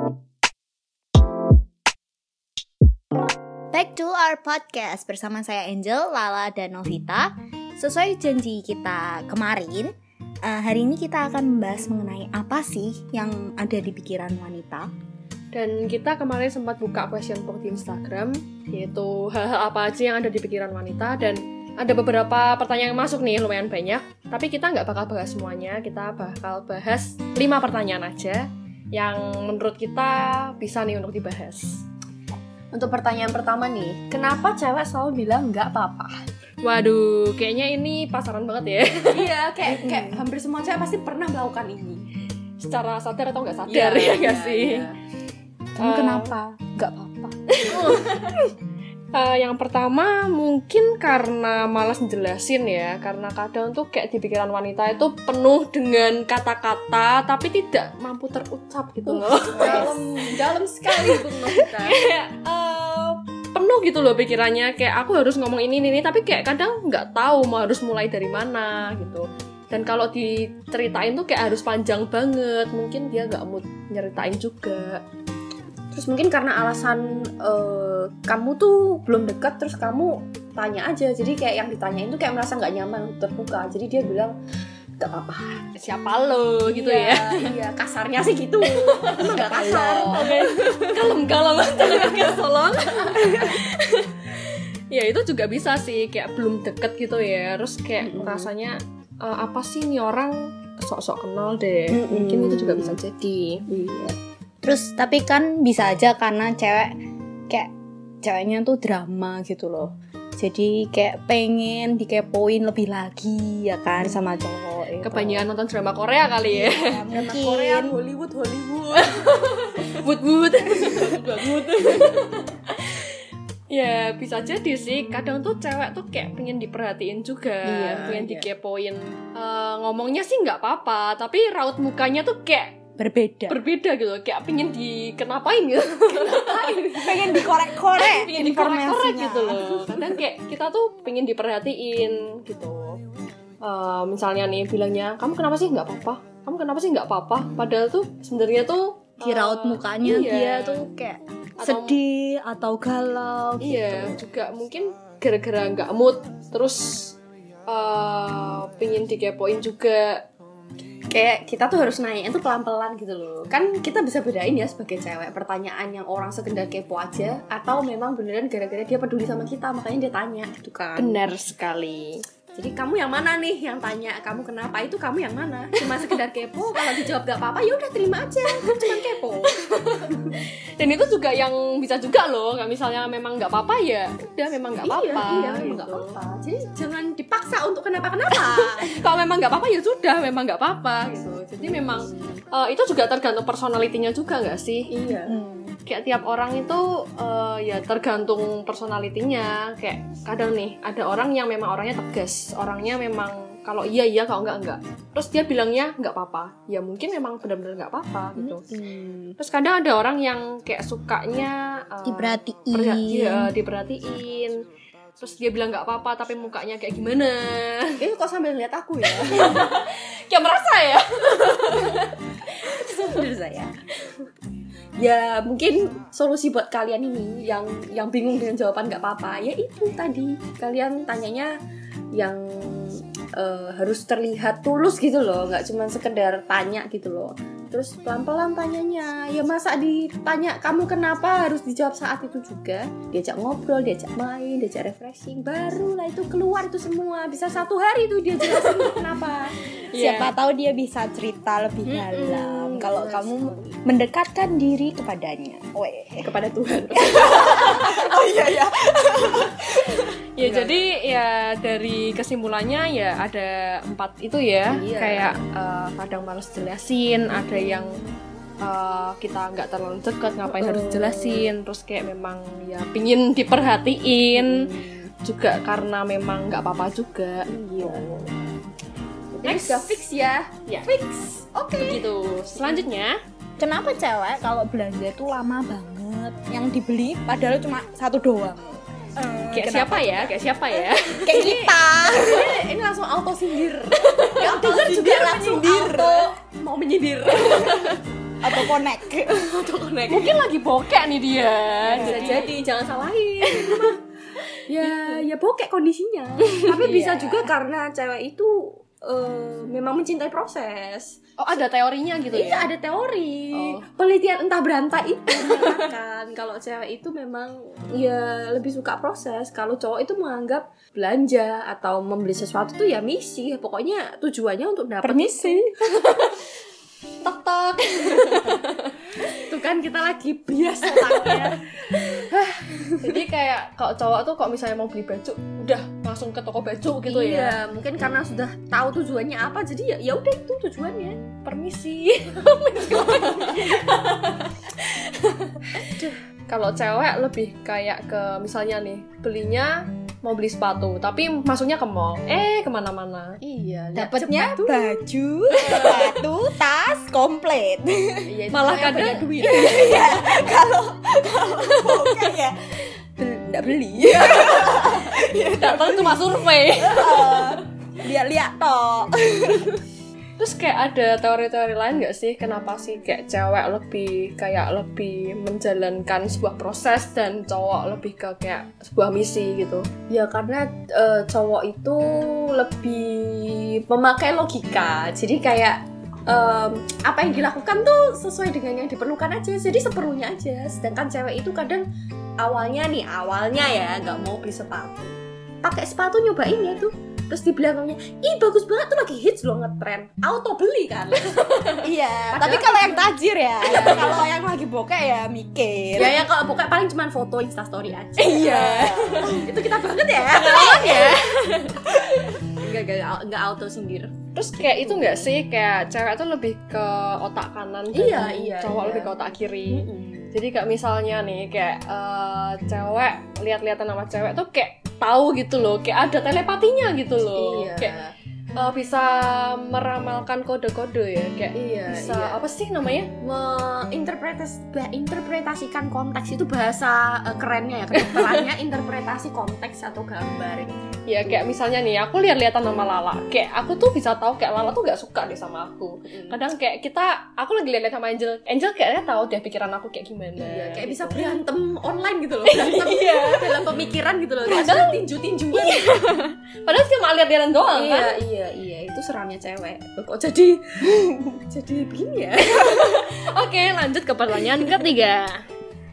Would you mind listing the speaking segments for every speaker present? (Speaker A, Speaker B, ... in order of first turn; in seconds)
Speaker A: 3.7-14.9, 39.7-40.2, 45.7-48.2, 59.5-60.0, 89.3-90.4, 104.6-106.9, 108.2-115.4, 116.5-118.0, 133.0-133.6, 136.9-140.0, 149.2-154.1, 195.2-195.8, 208.3-209.3, 212.0-213.5, 249.9-256.3, 256.9-260.1, 283.6-290.4, 291.2-292.6, 294.4-296.3, 298.4-299.7, 325.0-325.6, 353.9-358.3, 359.4-362.7, 364.2-366.1, 366.7-369.8, 401.8-406.2
Speaker B: 15.5-31.8, 36.6-39.3, 42.6-44.9, 45.8-46.4, 47.5-48.4, 49.1-60.0, 61.0-61.2, 61.8-75.0, 85.8-87.5, 88.6-103.6, 115.0-117.0, 119.0-123.2, 123.7-132.8, 133.5-143.0, 143.6-150.9, 151.6-152.0, 153.6-157.2, 157.7-160.2, 170.9-172.2, 179.5-186.1, 188.3-194.9, 195.8-208.7, 209.4-214.6, 215.2-218.0, 219.2-223.2, 249.9-250.3, 260.4-268.0, 268.6-274.7, 275.2-278.3, 279.4-280.0, 281.8-283.2, 289.5-291.4, 294.0-294.6, 297.3-298.0, 300.1-302.5, 303.4-303.9, 304.8-305.1, 306.5-307.5, 311.4-312.7, 313.5-313.8, 315.5-315.8, 325.3-326.3, 327.2-329.1, 331.0-331.4, 331.9-332.3, 333.0-337.6, 341.2-353.4, 355.5-356.2, 358.5-360.2, 364.0-367.6, 370.4-379.9, 401.5-401.9, 408.1-409.4, 410.2-411.9, 414.3-427.9, 428.6-433.1, 437.9-438.4, 441.1-451.4, 452.4-453.6, 454.4-458.2, 462.4-465.4
Speaker C: 32.7-36.2, 39.0-42.1, 43.7-45.0, 59.0-62.0, 75.9-84.3, 85.0-85.6, 86.6-90.9, 98.0-98.5, 101.9-103.0, 103.7-104.2, 117.1-119.3, 120.8-122.0, 127.6-128.5, 136.2-136.9, 161.1-171.2, 172.5-180.2, 184.8-188.9, 191.6-192.3, 194.9-195.4, 218.0-219.7, 222.7-223.7, 225.0-231.5, 232.1-249.6, 251.8-253.8, 256.2-258.1, 260.4-261.0, 264.7-265.4, 267.4-268.1, 270.4-271.5, 274.3-275.1, 277.5-278.0, 279.4-282.9, 291.3-298.0, 299.3-300.5, 301.8-304.0, 304.7-311.2, 312.3-325.6, 329.3-333.0, 337.0-341.2, 343.2-343.7, 353.4-355.0, 358.2-360.4, 363.2-364.9, 380.1-391.9, 392.4-401.8, 402.3-403.1, 403.6-404.3, 405.9-411.2, 412.5-415.3, 417.9-420.3, 427.2-428.1, 431.5-432.4, 433.2-441.6, 446.1-446.4, 450.4-455.9, 457.7-463.0